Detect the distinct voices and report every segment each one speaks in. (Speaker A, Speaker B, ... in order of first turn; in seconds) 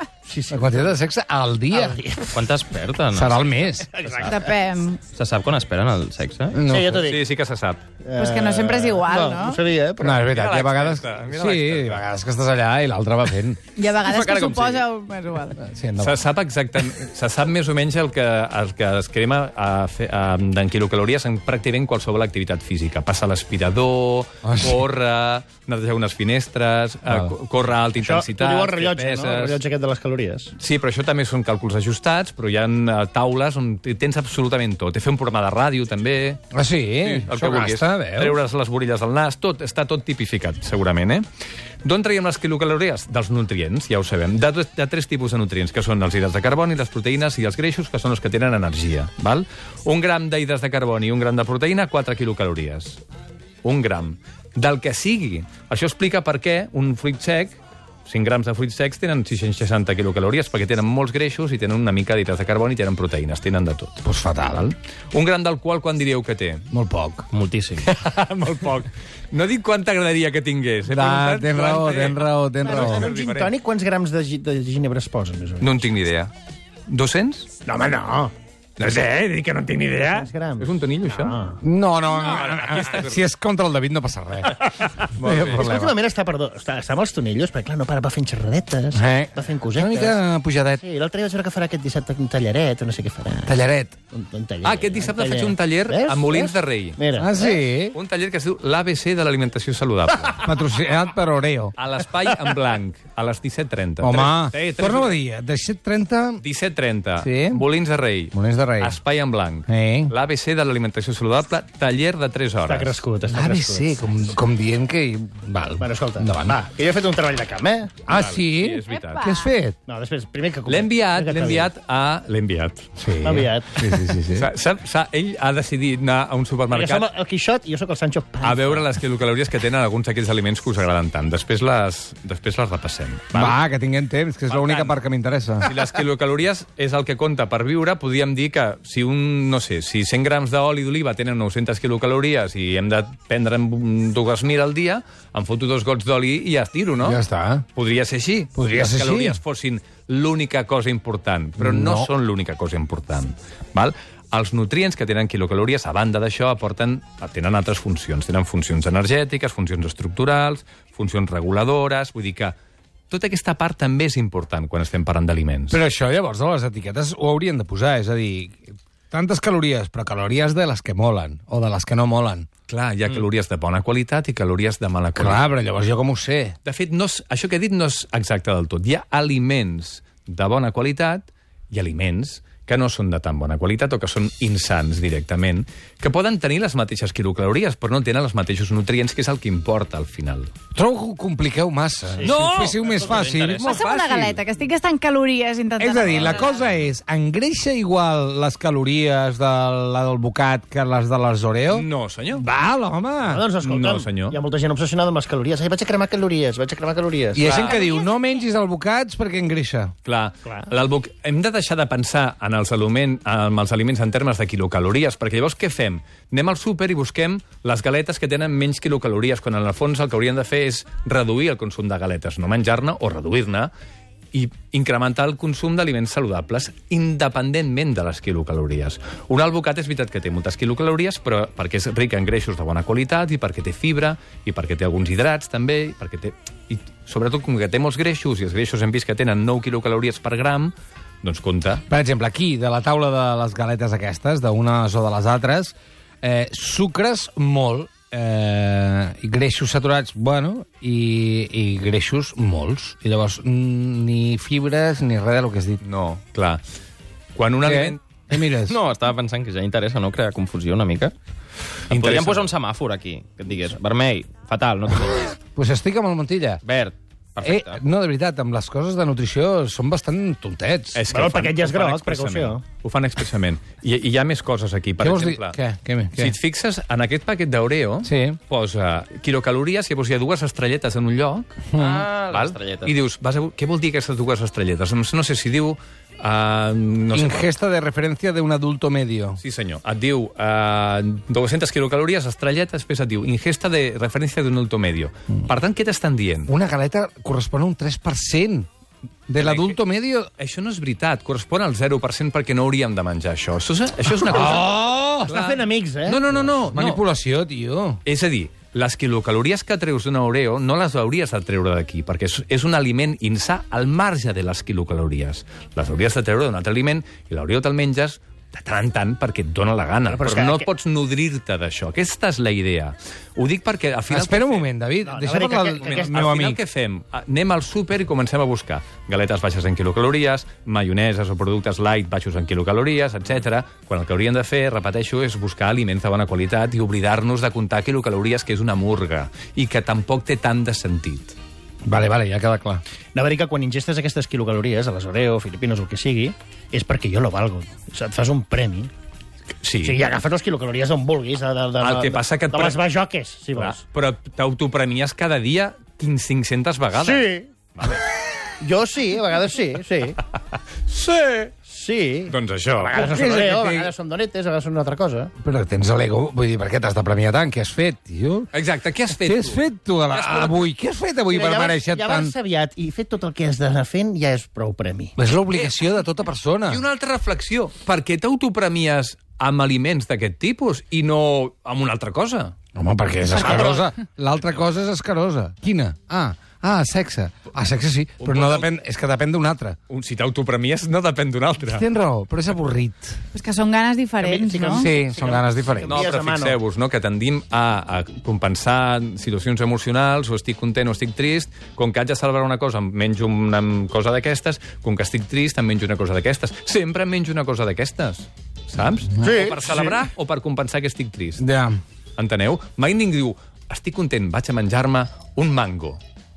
Speaker A: 0.2-0.8, 1.7-2.4, 3.9-4.5, 6.7-7.3, 8.0-10.2, 28.0-30.5, 72.6-75.8, 77.7-78.3, 80.1-81.6, 84.8-90.2, 90.8-93.6, 94.1-97.6, 112.6-113.9, 115.8-118.0, 119.8-121.7, 123.2-123.7, 126.7-128.9, 203.2-207.7, 271.1-272.6, 305.3-306.2, 320.1-320.7, 325.1-326.1, 343.1-348.9, 349.8-353.8, 356.9-357.5, 358.6-360.2, 361.6-365.3, 371.3-375.1, 394.2-396.6, 409.2-410.0
Speaker B: 0.5-2.0, 3.1-3.9, 6.5-7.0, 10.0-13.6, 15.5-16.2, 24.4-24.9, 27.1-27.3, 36.5-38.4, 64.0-64.7, 66.7-67.3, 70.9-73.1, 81.6-84.6, 85.2-85.9, 88.9-90.8, 93.5-93.9, 97.2-98.0, 100.4-101.7, 104.0-106.4, 107.2-107.6, 108.3-109.0, 109.7-110.1, 113.3-116.6, 118.1-119.8, 123.0-124.5, 133.3-135.7, 147.0-147.7, 148.5-149.4, 151.6-152.1, 165.7-172.5, 175.2-176.6, 190.7-193.8, 195.8-203.4, 207.3-209.9, 241.9-255.8, 257.6-258.8, 265.4-266.6, 267.4-271.0, 275.0-276.4, 278.0-278.4, 281.7-282.0, 287.1-289.4, 296.5-298.7, 299.3-300.3, 304.1-305.4, 306.5-308.0, 324.1-326.6, 341.8-342.8, 362.9-363.9, 365.4-368.5, 369.1-372.3, 375.1-376.8, 382.7-389.8, 391.6-393.2, 394.7-396.0, 411.4-411.8
Speaker C: 2.3-3.5, 5.1-6.7, 14.0-14.9, 67.3-67.9, 192.6-193.8, 258.7-261.1, 261.9-265.4, 266.6-267.8, 281.8-282.9
Speaker D: 4.2-5.0, 8.2-9.6, 13.8-15.6, 118.9-119.5, 193.6-196.5, 393.3-394.8
Speaker E: 7.0-7.8, 10.3-12.0, 16.0-29.6, 30.6-36.4, 37.0-41.2, 41.8-53.0, 53.6-64.0, 65.1-66.7, 67.8-73.5, 75.6-76.3, 76.9-77.5, 78.8-81.4, 82.1-83.2, 85.1-85.7, 94.6-97.0, 97.9-100.4, 101.7-105.2, 106.4-113.0, 118.1-119.2, 120.7-122.9, 124.3-127.0, 128.4-133.6, 134.5-135.0, 135.6-147.2, 147.7-162.6, 163.1-165.8, 172.7-175.5, 176.6-190.5, 192.2-194.4, 201.7-202.4, 203.6-204.4, 207.4-207.9, 210.0-223.7, 224.3-241.8, 255.8-256.6, 257.3-258.0, 261.9-262.5, 270.9-275.6, 276.1-281.7, 282.3-287.5, 289.4-296.5, 299.4-299.8, 300.4-307.0, 308.0-324.7, 325.8-341.4, 349.6-350.0, 351.8-352.8, 353.5-358.0, 360.9-361.5, 362.3-363.1, 368.5-370.7, 375.5-375.8, 376.6-382.6, 383.4-383.8, 388.2-388.7, 389.9-391.8, 395.8-411.4, 412.1-416.0